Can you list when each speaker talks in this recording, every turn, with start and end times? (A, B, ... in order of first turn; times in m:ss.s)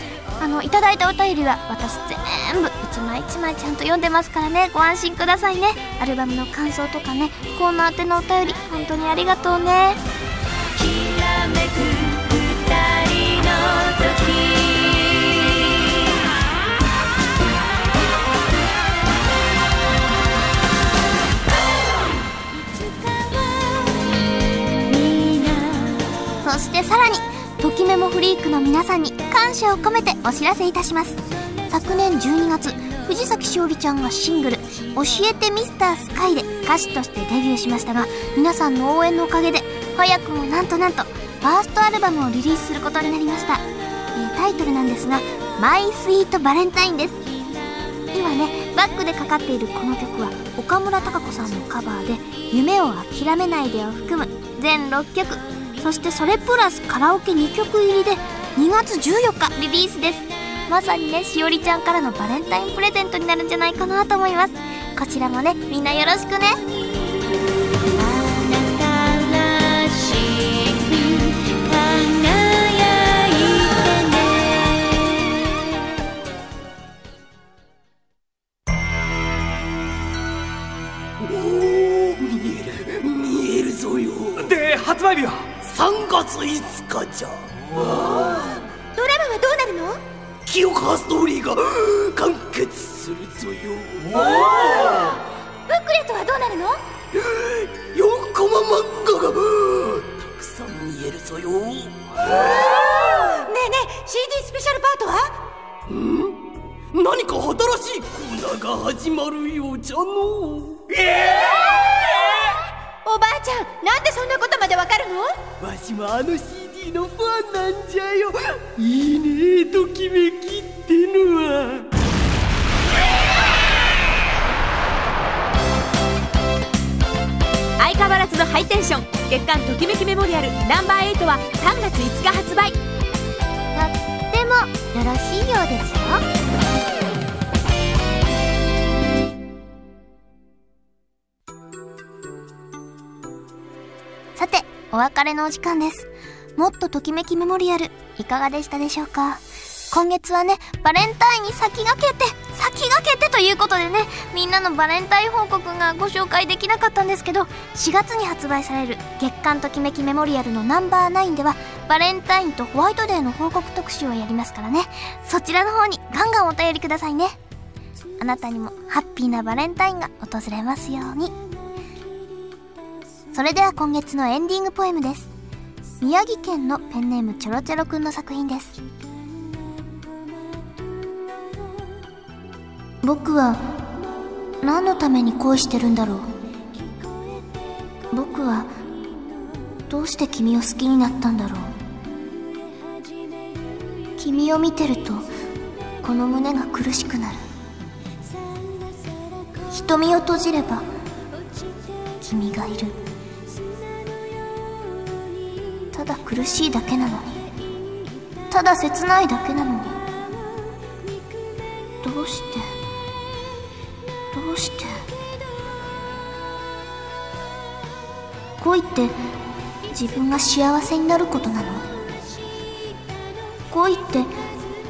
0:00.4-0:10.0 A
0:11.9-0:12.2 B
0:12.6-0:15.0 A
0:26.4-0:43.6 A
0:44.2-0:47.2 A
0:48.1-1:06.6 A
1:08.2-1:15.2 B
1:08.5-1:09.0 A
1:21.2-1:28.6 C
1:29.0-1:30.0 B
1:30.5-1:35.2 C
1:34.2-1:35.0 B
1:35.7-1:36.8 B
1:37.1-1:43.4 C
1:43.4-1:45.4 B
1:45.9-1:46.4 C
1:46.9-1:52.0 C
1:53.0-1:55.4 B
1:55.6-2:01.9 C
2:07.8-2:12.8 D
2:13.7-2:16.2 A
2:24.4-2:47.4 A
2:48.2-2:51.4 A
2:53.3-2:55.3 A
2:56.0-2:58.8 A
3:03.0-3:03.6 A
3:04.6-3:06.3 A
3:08.1-3:08.7 A
3:09.9-3:11.7 A
3:14.2-3:15.3 A
3:16.0-3:17.4 A
3:19.7-3:20.9 A
3:22.2-3:23.0 A
3:25.9-3:27.4 A
3:28.5-3:30.0 A
3:32.0-3:32.7 A
3:34.3-3:35.0 A
3:38.6-3:39.2 A
3:39.9-3:41.9 A
3:43.7-3:44.3 A